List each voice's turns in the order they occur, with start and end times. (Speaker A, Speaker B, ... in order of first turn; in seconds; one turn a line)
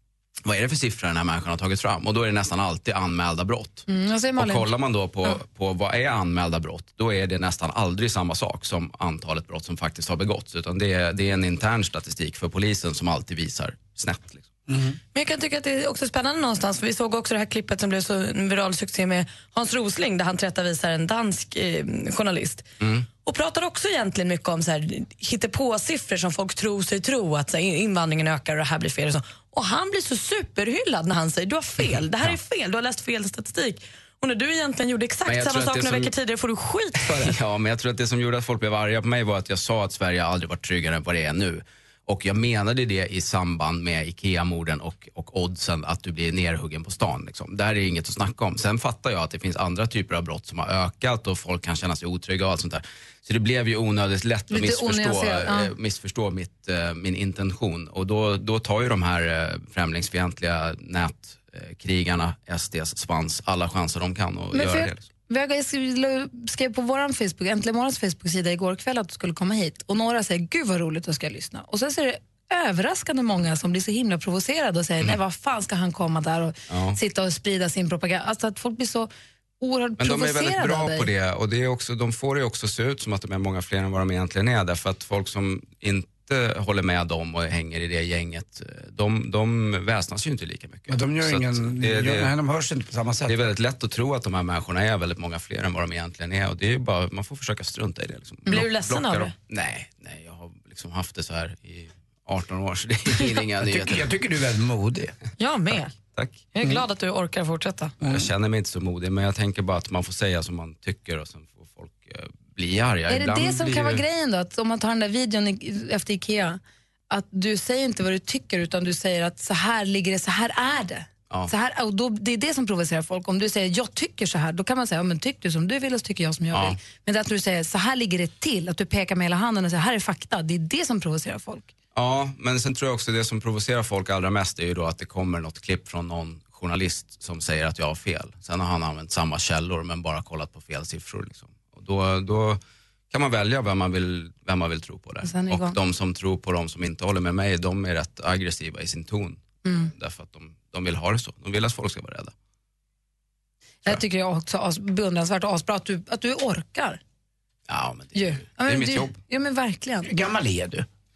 Speaker A: 0.4-14.5
Speaker B: 3.9-4.7
Speaker C: 14.7-15.0
Speaker D: 15.1-22.6
Speaker A: 22.8-23.1
Speaker D: 23.2-37.3
Speaker A: 35.2-36.1
Speaker A: 37.0-65.0
Speaker B: 54.5-55.7
Speaker B: 64.5-81.1
Speaker A: 76.7-77.0
Speaker A: 80.0-92.3
Speaker C: 90.9-93.3
Speaker A: 93.3-104.1
Speaker D: 98.5-99.3
Speaker C: 103.6-105.1
Speaker D: 105.4-105.9
Speaker A: 106.1-106.4
Speaker D: 106.5-108.0
Speaker C: 108.0-108.3
Speaker A: 108.1-114.0
Speaker B: 113.1-131.7
Speaker A: 126.5-126.8
Speaker A: 131.9-142.6
Speaker A: 143.1-152.3
Speaker B: 145.2-145.8
Speaker B: 149.6-149.9
Speaker B: 153.8-157.0
Speaker A: 157.7-159.2
Speaker B: 158.1-160.1
Speaker C: 160.1-160.8